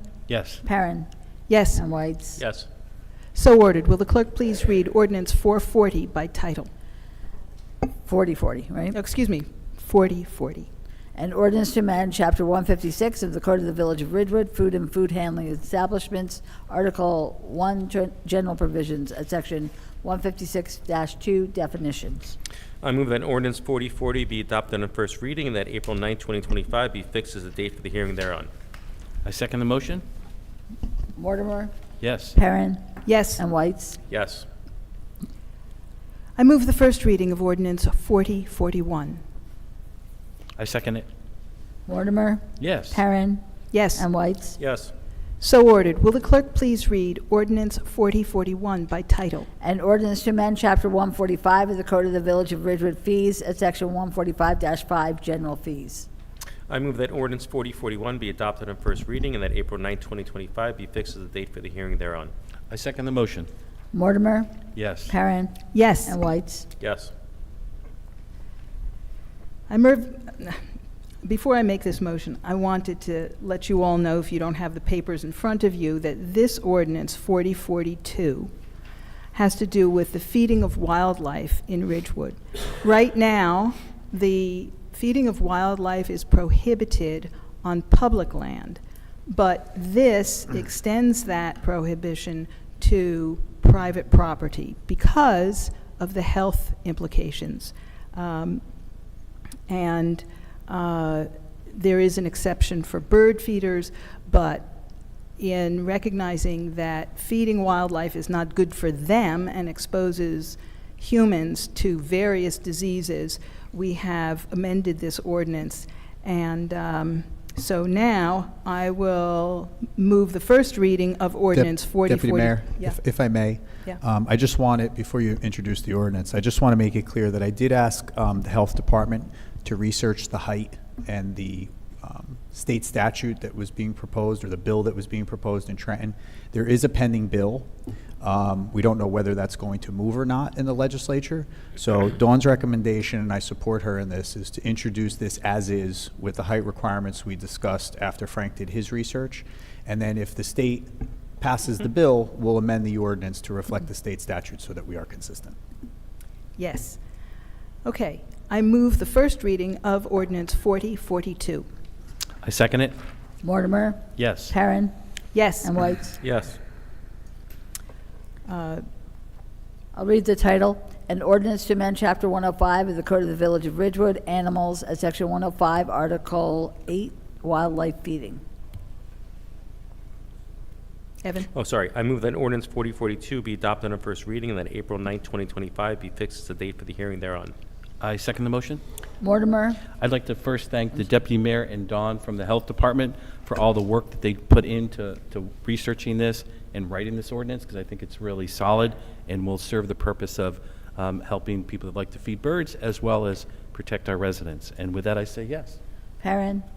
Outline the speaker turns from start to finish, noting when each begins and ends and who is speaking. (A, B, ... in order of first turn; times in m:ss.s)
0:00.3-0:00.6 A
0:00.6-0:01.1 B
0:01.5-0:01.8 C
0:01.7-0:02.4 B
0:02.4-0:02.6 D
0:03.3-0:06.7 C
0:08.0-0:09.0 B
0:08.9-0:10.7 C
0:11.1-0:22.4 B
0:22.8-0:28.5 D
0:29.2-0:30.0 A
0:31.1-0:31.7 B
0:32.0-0:32.4 A
0:32.3-0:32.8 B
0:33.0-0:33.4 C
0:33.4-0:34.0 B
0:34.1-0:34.4 D
0:36.4-0:39.2 C
0:40.6-0:41.1 A
0:41.9-0:43.4 B
0:42.6-0:43.0 A
0:43.7-0:44.0 C
0:43.9-0:44.6 B
0:44.6-0:44.9 D
0:45.4-0:49.5 C
0:49.6-0:56.1 B
0:56.7-1:02.3 D
1:02.7-1:03.5 A
1:03.9-1:04.5 B
1:04.7-1:05.1 A
1:05.1-1:06.6 B
1:05.7-1:06.2 C
1:06.8-1:07.1 D
1:09.7-1:10.6 C
1:11.2-1:18.5 C
1:19.3-1:38.6 C
1:39.7-1:44.8 C
1:45.4-2:03.0 C
2:01.5-2:17.7 E
2:18.2-2:35.6 E
2:36.6-2:37.0 C
2:37.8-2:41.7 C
2:42.4-2:43.0 A
2:43.4-2:44.9 B
2:44.2-2:44.6 A
2:45.3-2:45.7 C
2:45.6-2:46.2 B
2:46.2-2:46.6 D
2:48.5-2:48.8 C
2:49.9-2:58.4 B
3:01.2-3:01.5 C
3:01.5-3:07.5 D
3:08.0-3:08.8 A
3:09.2-3:09.8 B
3:10.0-3:25.8 A
3:26.2-3:26.6 B